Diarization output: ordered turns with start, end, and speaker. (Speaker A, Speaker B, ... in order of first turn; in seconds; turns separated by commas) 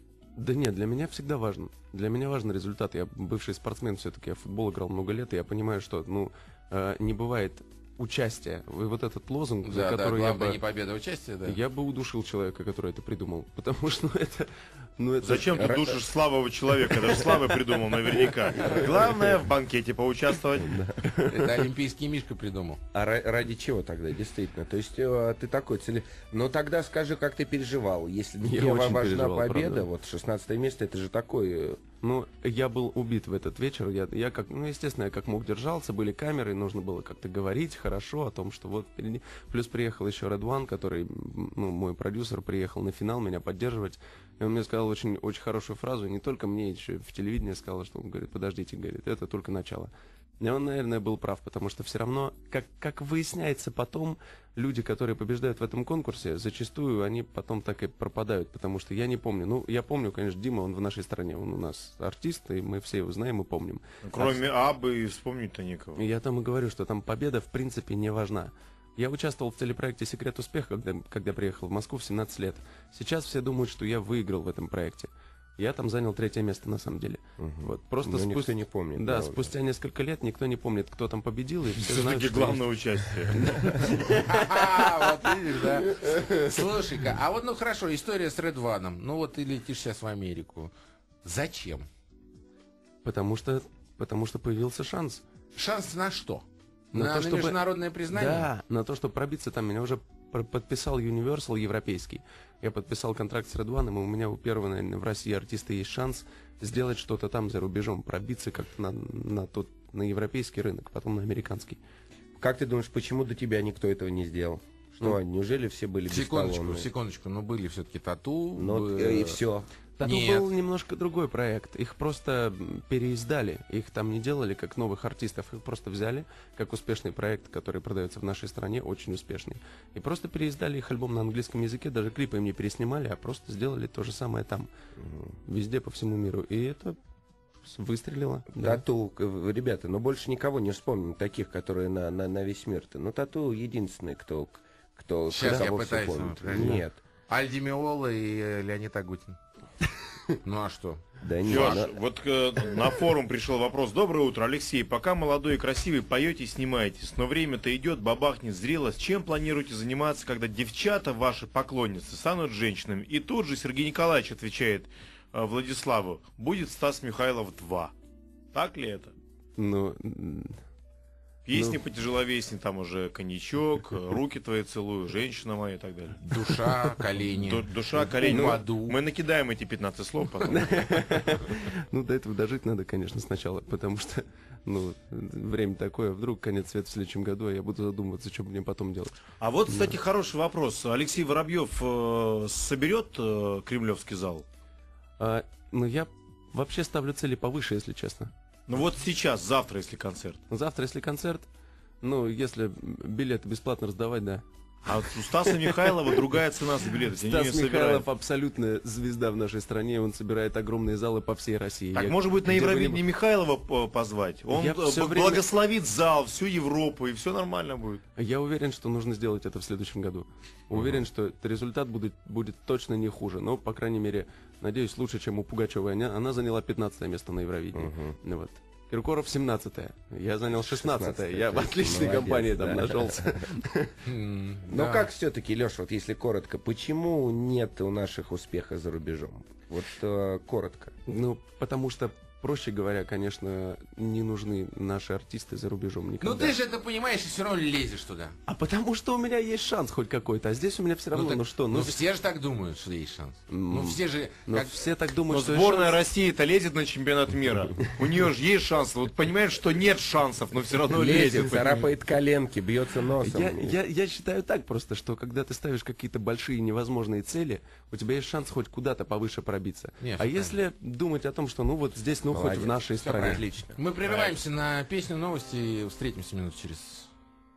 Speaker A: 0.4-10.6, Speaker B: 9.6-11.6, Speaker A: 11.4-15.7, Speaker C: 15.2-20.8, Speaker D: 15.6-15.9, Speaker D: 18.6-18.9, Speaker D: 20.7-21.1, Speaker B: 21.2-22.8, Speaker D: 22.9-31.8, Speaker A: 28.4-29.9, Speaker A: 32.0-64.4, Speaker C: 64.0-66.0, Speaker A: 66.0-82.6, Speaker D: 77.4-79.5, Speaker C: 81.8-83.5, Speaker A: 83.3-84.5, Speaker B: 84.2-90.7, Speaker B: 91.2-91.9, Speaker A: 93.0-95.2, Speaker B: 95.5-98.5, Speaker A: 96.9-111.8, Speaker D: 112.4-116.9, Speaker B: 116.1-119.4, Speaker D: 118.6-119.7, Speaker A: 120.0-134.7, Speaker B: 120.0-120.5, Speaker D: 135.0-135.3, Speaker A: 135.5-137.0, Speaker A: 137.6-138.8, Speaker D: 138.5-147.0, Speaker B: 145.3-149.4, Speaker A: 146.5-146.8, Speaker B: 150.4-151.8, Speaker D: 151.2-151.9, Speaker C: 151.5-167.9, Speaker C: 168.5-169.1, Speaker A: 169.6-170.6, Speaker C: 171.5-176.6, Speaker A: 171.5-171.8, Speaker B: 176.2-179.0, Speaker C: 177.3-181.4, Speaker A: 178.3-178.6, Speaker A: 180.4-189.2, Speaker C: 189.4-194.4, Speaker A: 189.7-189.9, Speaker A: 195.2-198.3, Speaker C: 198.7-200.4, Speaker A: 200.5-201.5, Speaker A: 202.0-204.4, Speaker C: 204.8-208.1, Speaker A: 207.2-213.0, Speaker C: 211.9-218.0, Speaker A: 214.5-215.4, Speaker A: 218.2-234.0, Speaker D: 220.7-221.1, Speaker D: 227.8-228.2, Speaker D: 230.5-233.5, Speaker B: 234.1-235.1, Speaker D: 234.7-240.9, Speaker A: 241.1-246.6, Speaker B: 246.2-248.4, Speaker A: 248.5-252.0, Speaker B: 251.1-254.9, Speaker A: 253.5-256.0, Speaker C: 255.3-261.8, Speaker D: 260.9-263.8, Speaker A: 263.2-273.4, Speaker B: 270.0-270.6, Speaker D: 272.3-273.8, Speaker B: 273.0-277.1, Speaker C: 274.0-274.4